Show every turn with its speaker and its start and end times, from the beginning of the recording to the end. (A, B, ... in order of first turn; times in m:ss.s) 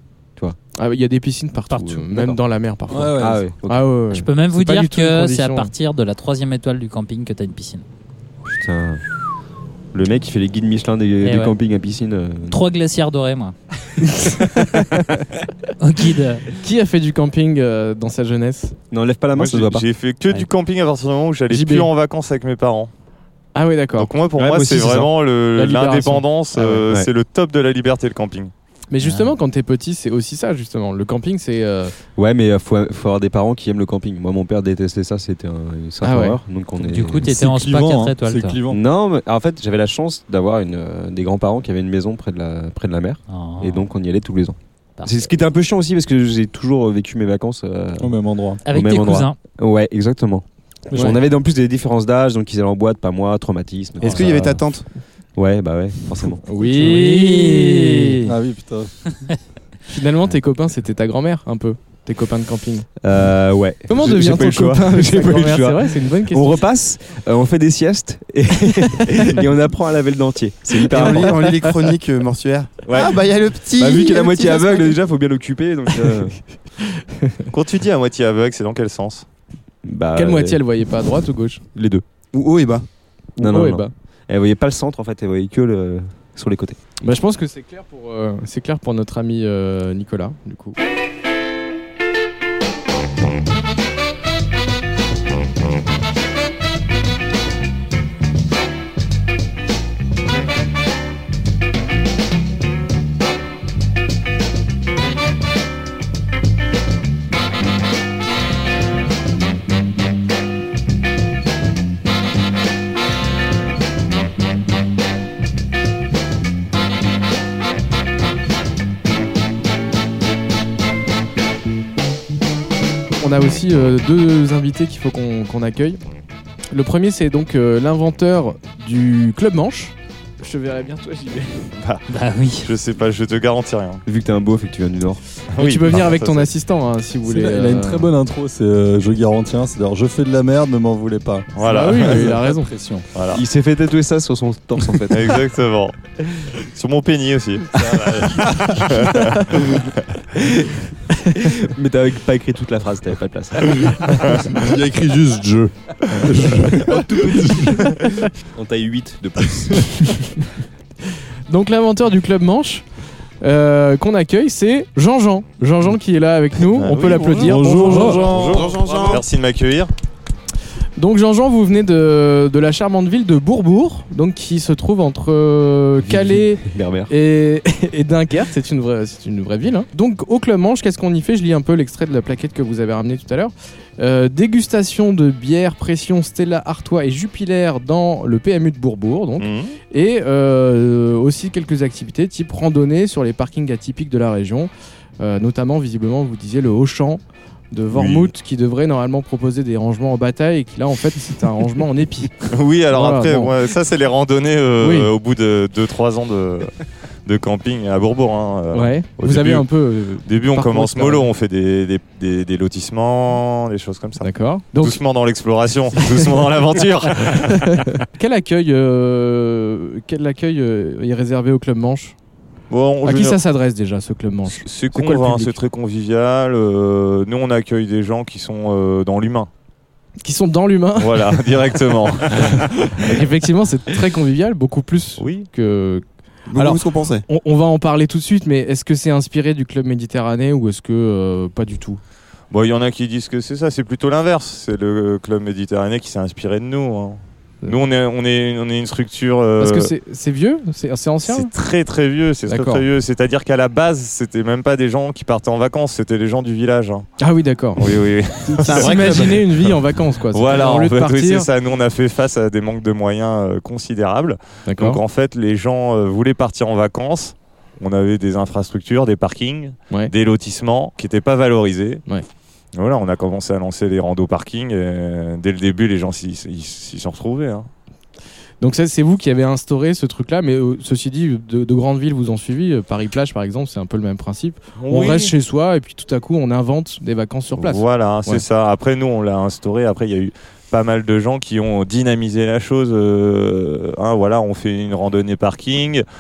0:00.8-0:05.7 A
0:01.7-0:02.2 B
0:02.9-0:03.5 C
0:03.2-0:04.0 D
0:04.1-0:07.8 B
0:08.4-0:09.0 D
0:09.9-0:12.6 D
0:11.2-0:11.5 B
0:12.5-0:13.5 B
0:14.0-0:15.0 A
0:15.8-0:16.4 B
0:16.6-0:18.8 A
0:18.9-0:19.8 D
0:19.3-0:22.9 E
0:21.5-0:21.9 A
0:23.5-0:24.1 A
0:24.0-0:28.5 E
0:24.4-0:25.1 D
0:25.5-0:26.8 A
0:28.9-0:31.9 A
0:29.0-0:29.3 B
0:32.2-0:37.3 D
0:36.0-0:36.4 A
0:36.8-0:38.6 B
0:37.2-0:38.8 C
0:38.7-0:48.2 D
0:43.3-0:43.9 B
0:45.0-0:45.3 B
0:48.0-0:48.6 C
0:48.6-0:49.4 B
0:48.7-0:54.6 D
0:54.0-0:54.3 B
0:54.0-0:54.8 F
0:55.3-0:56.4 D
0:56.4-0:58.3 A
0:56.7-0:58.2 B
0:58.2-0:58.9 C
0:59.9-1:02.9 A
1:03.0-1:11.6 D
1:03.8-1:06.6 A
1:08.8-1:09.0 A
1:10.8-1:14.9 F
1:11.0-1:11.4 A
1:12.8-1:13.2 D
1:13.7-1:16.4 D
1:17.0-1:17.4 A
1:17.5-1:19.2 E
1:19.8-1:20.6 D
1:20.2-1:21.6 A
1:21.7-1:22.0 D
1:22.3-1:22.8 F
1:23.4-1:23.9 A
1:23.4-1:26.8 D
1:27.0-1:30.8 A
2:03.2-2:06.0 A
2:06.7-2:11.7 A
2:11.8-2:12.0 E
2:12.1-2:12.7 B
2:12.6-2:14.0 E
2:14.0-2:15.2 D
2:15.5-2:16.5 E
2:15.6-2:18.1 A
2:17.2-2:23.1 C
2:21.6-2:22.3 E
2:21.6-2:22.7 A
2:23.1-2:23.4 E
2:23.3-2:25.3 D
2:25.1-2:29.8 E
2:27.8-2:28.8 C
2:30.3-2:33.9 D
2:33.8-2:38.1 C
2:36.7-2:40.1 D
2:41.5-2:42.9 A
2:43.4-2:48.2 A
2:46.7-2:49.9 E
2:47.4-2:48.6 C
2:48.2-2:49.2 F
2:51.0-3:23.5 A
2:56.0-2:57.1 D
3:09.4-3:09.8 E
3:17.9-3:18.3 E
3:22.5-3:29.7 E
3:24.8-3:25.1 A
3:28.7-3:31.2 A
3:30.2-3:37.9 E
3:34.2-3:35.0 A
3:37.2-3:42.2 A
3:42.7-3:43.4 E
3:43.0-3:45.6 A
3:44.5-3:49.5 E
3:50.2-3:51.5 A
3:51.0-3:53.1 E
3:52.3-3:56.0 A
3:55.2-3:55.5 E
3:56.5-3:57.2 F
3:56.6-4:02.0 A
4:02.5-4:09.9 E
4:09.6-4:11.5 A
4:11.3-4:17.1 E
4:12.5-4:12.8 A
4:17.2-4:17.8 A
4:17.8-4:19.7 E
4:18.4-4:21.5 A
4:18.7-4:19.3 F
4:20.3-4:32.0 E
4:24.6-4:25.0 A
4:32.7-4:37.7 E
4:38.6-4:48.4 A
4:44.8-4:45.3 E
4:47.6-4:56.0 E